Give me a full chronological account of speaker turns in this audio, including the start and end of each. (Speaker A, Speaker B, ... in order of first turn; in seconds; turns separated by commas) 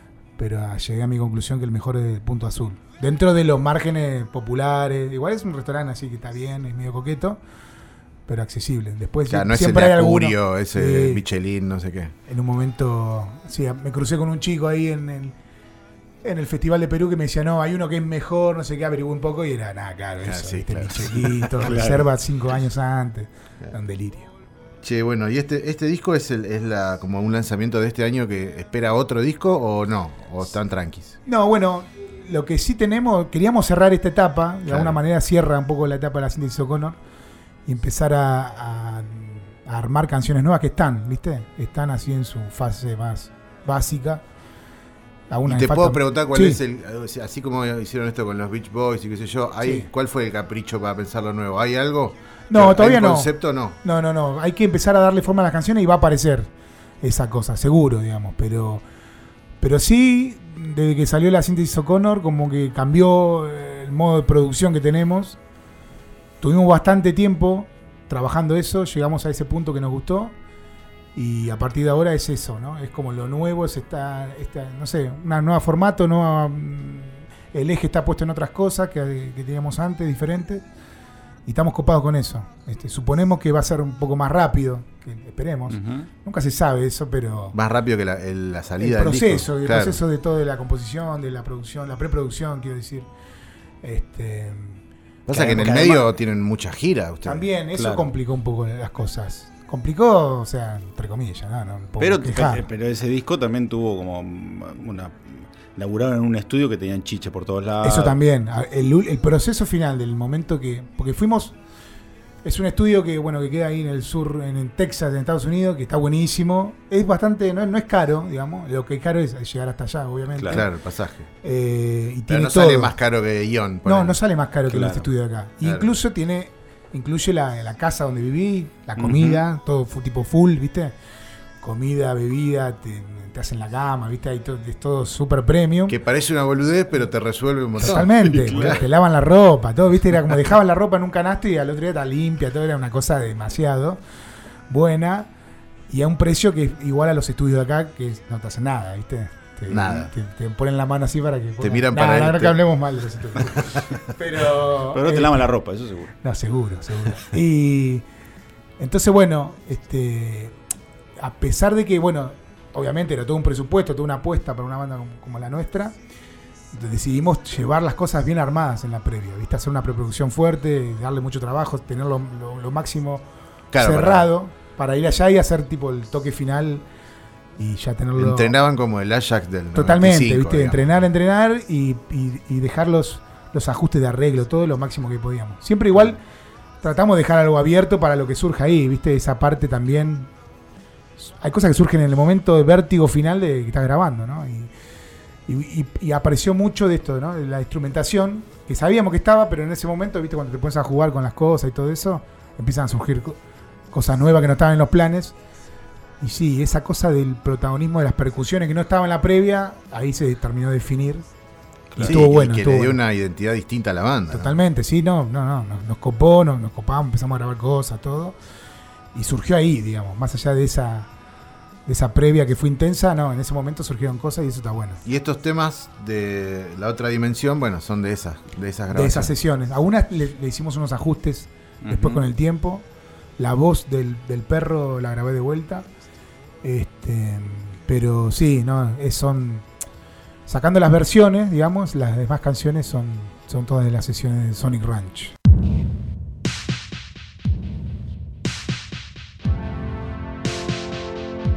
Speaker A: 0.4-7.4, Speaker A: 8.3-11.2, Speaker B: 9.3-12.1, Speaker A: 12.3-15.4, Speaker A: 16.2-24.3, Speaker B: 20.3-21.5, Speaker C: 21.6-22.1, Speaker B: 24.8-31.2, Speaker A: 31.3-37.0, Speaker B: 34.7-35.0, Speaker A: 37.7-44.2, Speaker A: 45.3-46.6, Speaker B: 45.5-53.8, Speaker A: 49.6-49.9, Speaker A: 52.5-56.5, Speaker A: 57.0-58.8, Speaker A: 59.6-65.4, Speaker A: 66.4-70.3, Speaker A: 71.2-80.7, Speaker A: 81.5-87.6, Speaker C: 85.7-86.1, Speaker B: 87.5-90.0, Speaker A: 88.8-93.1, Speaker A: 93.8-96.1, Speaker B: 95.3-97.5, Speaker A: 97.2-102.6, Speaker C: 97.8-98.1, Speaker C: 102.0-108.2, Speaker A: 107.8-111.5, Speaker A: 112.4-120.7, Speaker C: 120.4-120.7, Speaker B: 120.5-121.3, Speaker A: 121.4-122.9, Speaker B: 122.3-124.2, Speaker A: 123.8-130.9, Speaker C: 124.7-125.1, Speaker B: 125.6-125.9, Speaker C: 129.0-129.4, Speaker A: 131.6-136.0, Speaker B: 135.9-138.8, Speaker A: 137.8-144.0, Speaker C: 137.8-138.8, Speaker A: 144.7-145.3, Speaker A: 145.9-155.5, Speaker B: 149.7-150.1, Speaker B: 151.6-152.6, Speaker B: 153.4-153.9, Speaker C: 154.9-156.1, Speaker A: 156.2-158.1, Speaker A: 158.8-160.6, Speaker A: 161.2-165.9, Speaker A: 166.7-173.2, Speaker B: 173.7-174.3, Speaker A: 173.8-176.9, Speaker A: 177.6-178.6, Speaker B: 178.2-180.9, Speaker A: 179.8-186.2, Speaker A: 186.8-190.3, Speaker A: 191.2-194.7, Speaker A: 195.5-203.4, Speaker A: 203.9-205.4, Speaker A: 206.2-211.2, Speaker C: 211.9-212.2, Speaker A: 212.0-213.0, Speaker B: 212.0-214.6, Speaker A: 214.3-218.3, Speaker A: 219.1-221.1, Speaker A: 221.9-225.0, Speaker B: 225.1-229.3, Speaker A: 228.9-232.8, Speaker C: 231.8-232.2, Speaker A: 233.4-235.9, Speaker A: 236.6-239.7, Speaker A: 240.5-245.3